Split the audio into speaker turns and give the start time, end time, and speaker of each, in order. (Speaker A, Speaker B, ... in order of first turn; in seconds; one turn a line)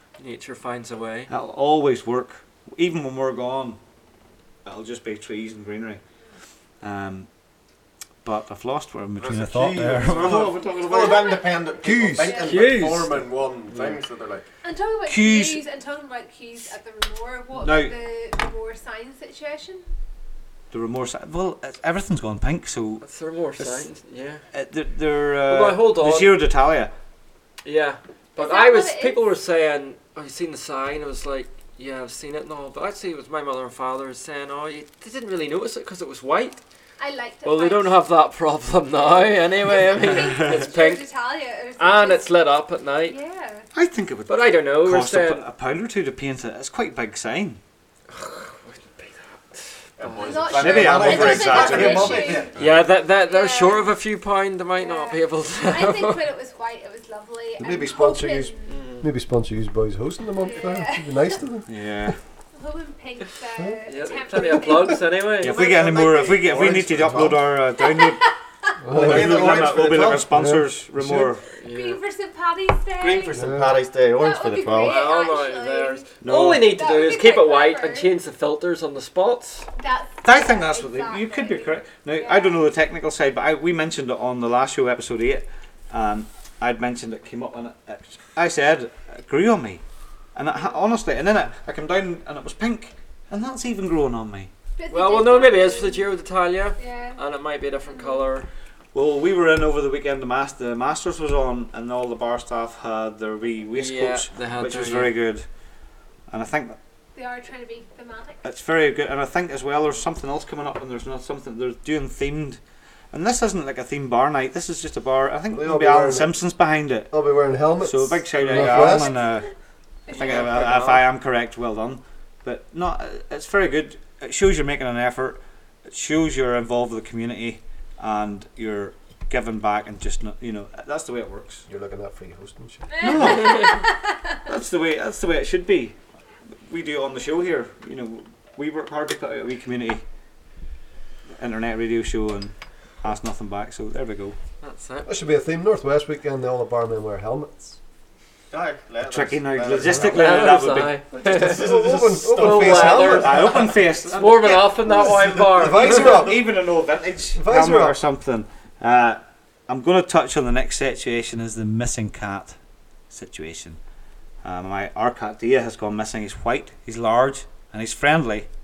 Speaker A: 0.2-1.3
Speaker B: 1.3-3.8
Speaker B: 4.6-6.0
Speaker B: 6.8-7.3
Speaker B: 8.2-11.3
Speaker C: 9.2-14.4
Speaker D: 10.6-12.6
Speaker E: 11.8-12.4
Speaker A: 12.4-13.2
Speaker D: 14.6-19.9
Speaker B: 15.1-15.6
Speaker B: 17.6-17.9
Speaker B: 20.7-23.0
Speaker A: 23.0-24.4
Speaker B: 23.6-23.9
Speaker B: 24.5-26.9
Speaker A: 25.5-26.3
Speaker A: 27.6-36.6
Speaker D: 28.4-29.3
Speaker D: 37.0-38.0
Speaker A: 37.4-41.0
Speaker D: 39.0-42.4
Speaker A: 41.8-43.2
Speaker D: 43.0-43.6
Speaker B: 43.7-47.6
Speaker A: 44.3-45.4
Speaker A: 48.1-50.3
Speaker C: 50.0-52.6
Speaker D: 50.1-52.5
Speaker B: 50.5-52.7
Speaker A: 52.5-56.2
Speaker D: 53.2-53.9
Speaker D: 54.8-58.8
Speaker E: 57.6-61.6
Speaker A: 58.6-59.1
Speaker D: 60.4-61.4
Speaker B: 61.7-62.2
Speaker D: 62.5-65.0
Speaker A: 63.9-65.6
Speaker B: 65.4-68.2
Speaker C: 65.4-67.4
Speaker D: 65.9-66.3
Speaker E: 66.7-67.4
Speaker D: 67.8-68.3
Speaker E: 68.8-71.3
Speaker B: 68.9-71.4
Speaker C: 68.9-70.2
Speaker A: 71.6-72.0
Speaker D: 71.7-73.5
Speaker C: 73.0-75.0
Speaker E: 73.3-73.8
Speaker D: 74.1-76.1
Speaker A: 74.8-79.7
Speaker B: 76.2-76.7
Speaker D: 76.7-78.1
Speaker D: 79.8-82.6
Speaker B: 80.2-89.8
Speaker B: 90.3-94.5
Speaker D: 94.8-96.1
Speaker A: 94.9-98.5
Speaker D: 96.8-97.2
Speaker D: 97.8-98.3
Speaker B: 98.9-105.5
Speaker A: 103.7-105.1
Speaker B: 106.3-106.8
Speaker D: 107.1-108.4
Speaker B: 108.4-112.6
Speaker B: 113.1-117.1
Speaker E: 115.5-116.4
Speaker E: 117.1-119.1
Speaker B: 117.8-119.5
Speaker D: 120.1-120.4
Speaker B: 120.1-131.7
Speaker A: 120.1-121.0
Speaker E: 131.7-133.1
Speaker D: 132.9-134.1
Speaker B: 133.0-133.8
Speaker B: 134.4-135.9
Speaker B: 136.7-140.0
Speaker B: 141.4-144.3
Speaker A: 144.6-145.1
Speaker E: 145.1-147.8
Speaker C: 148.5-150.3
Speaker B: 149.1-151.0
Speaker A: 150.0-151.8
Speaker E: 151.1-153.7
Speaker C: 151.4-153.6
Speaker A: 152.3-153.6
Speaker B: 153.0-154.9
Speaker A: 154.1-156.1
Speaker E: 154.8-156.5
Speaker B: 155.4-162.6
Speaker E: 157.3-158.0
Speaker B: 163.1-163.8
Speaker B: 164.4-168.5